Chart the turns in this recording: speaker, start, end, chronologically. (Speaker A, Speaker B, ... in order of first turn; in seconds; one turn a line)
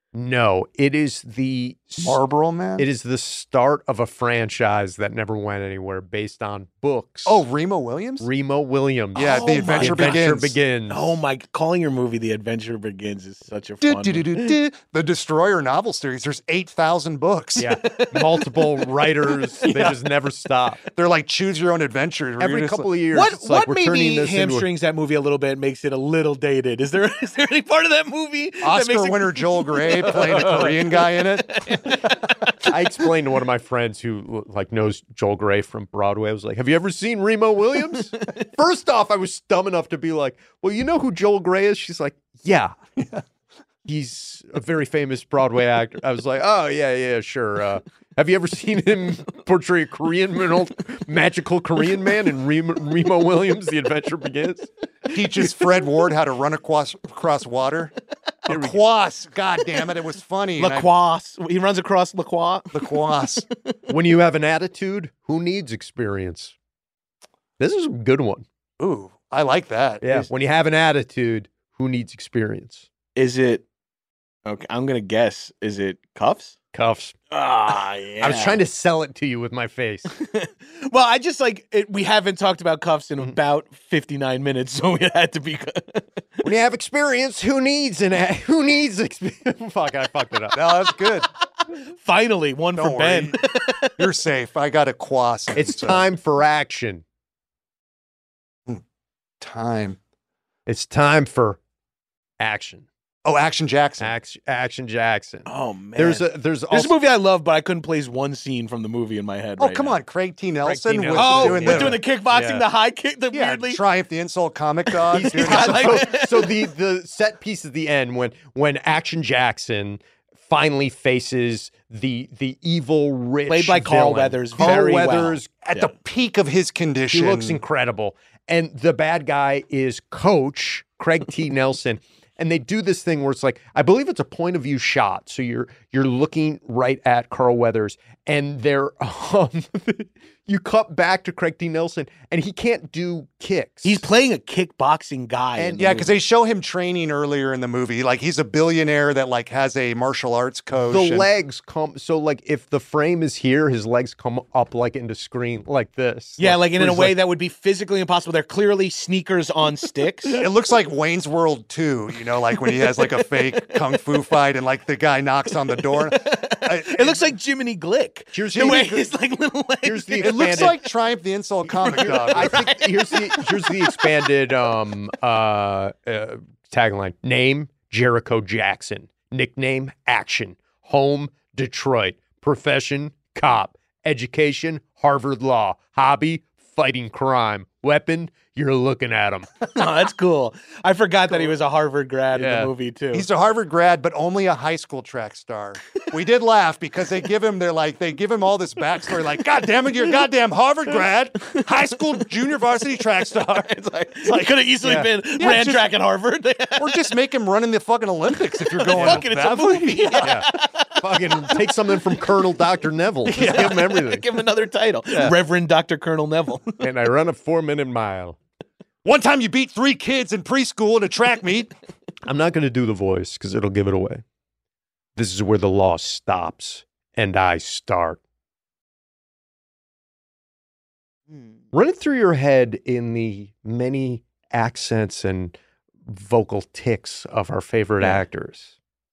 Speaker A: 0.1-2.2
Speaker B: 2.0-2.9
Speaker A: 2.8-7.4
Speaker B: 7.2-8.3
Speaker A: 8.2-11.2
Speaker B: 9.1-10.6
Speaker C: 9.2-10.2
Speaker C: 10.9-14.5
Speaker B: 13.8-17.6
Speaker A: 17.6-20.8
Speaker C: 17.6-18.9
Speaker B: 19.7-20.0
Speaker B: 20.9-22.9
Speaker A: 22.4-24.7
Speaker C: 23.1-32.2
Speaker B: 28.6-32.0
Speaker A: 30.3-30.7
Speaker A: 32.7-42.7
Speaker A: 43.8-54.7
Speaker B: 55.1-57.9
Speaker B: 58.5-60.9
Speaker A: 58.5-58.8
Speaker C: 60.6-63.3
Speaker B: 62.7-63.5
Speaker A: 63.9-66.5
Speaker A: 67.6-68.4
Speaker B: 68.8-70.3
Speaker A: 70.0-72.8
Speaker C: 73.2-73.6
Speaker C: 74.4-76.5
Speaker A: 76.7-77.1
Speaker C: 77.3-78.6
Speaker A: 78.2-80.1
Speaker C: 80.1-86.1
Speaker A: 86.4-90.7
Speaker B: 90.5-91.3
Speaker C: 91.9-94.0
Speaker B: 92.7-93.4
Speaker B: 94.0-96.1
Speaker A: 95.5-97.0
Speaker B: 99.4-100.0
Speaker A: 100.7-101.6
Speaker A: 102.4-102.8
Speaker B: 103.2-104.1
Speaker A: 104.0-107.0
Speaker C: 105.5-109.9
Speaker B: 109.6-112.0
Speaker A: 110.6-112.6
Speaker C: 111.1-113.8
Speaker B: 113.3-116.0
Speaker A: 115.1-125.5
Speaker C: 115.2-116.5
Speaker C: 123.5-125.4
Speaker B: 124.6-124.8
Speaker B: 125.6-127.6
Speaker A: 127.1-144.0
Speaker C: 143.8-146.1
Speaker A: 145.6-146.1
Speaker B: 145.8-151.3
Speaker A: 150.9-157.2
Speaker C: 156.4-160.4
Speaker B: 160.4-167.3
Speaker C: 162.7-163.8
Speaker C: 165.8-170.5
Speaker A: 168.3-169.0
Speaker B: 168.5-169.0
Speaker A: 169.8-170.8
Speaker B: 170.2-172.6
Speaker A: 171.8-189.5
Speaker C: 171.9-174.2
Speaker C: 189.7-193.3
Speaker A: 192.3-192.7
Speaker B: 193.1-204.5
Speaker C: 203.4-207.1
Speaker A: 204.8-205.1
Speaker B: 205.4-205.8
Speaker B: 206.8-210.4
Speaker C: 208.8-211.6
Speaker A: 208.9-209.2
Speaker A: 210.2-214.3
Speaker B: 213.3-213.8
Speaker C: 213.3-216.8
Speaker A: 216.8-218.4
Speaker B: 219.0-221.7
Speaker A: 222.2-224.2
Speaker A: 225.2-228.2
Speaker A: 231.7-235.5
Speaker A: 236.1-238.7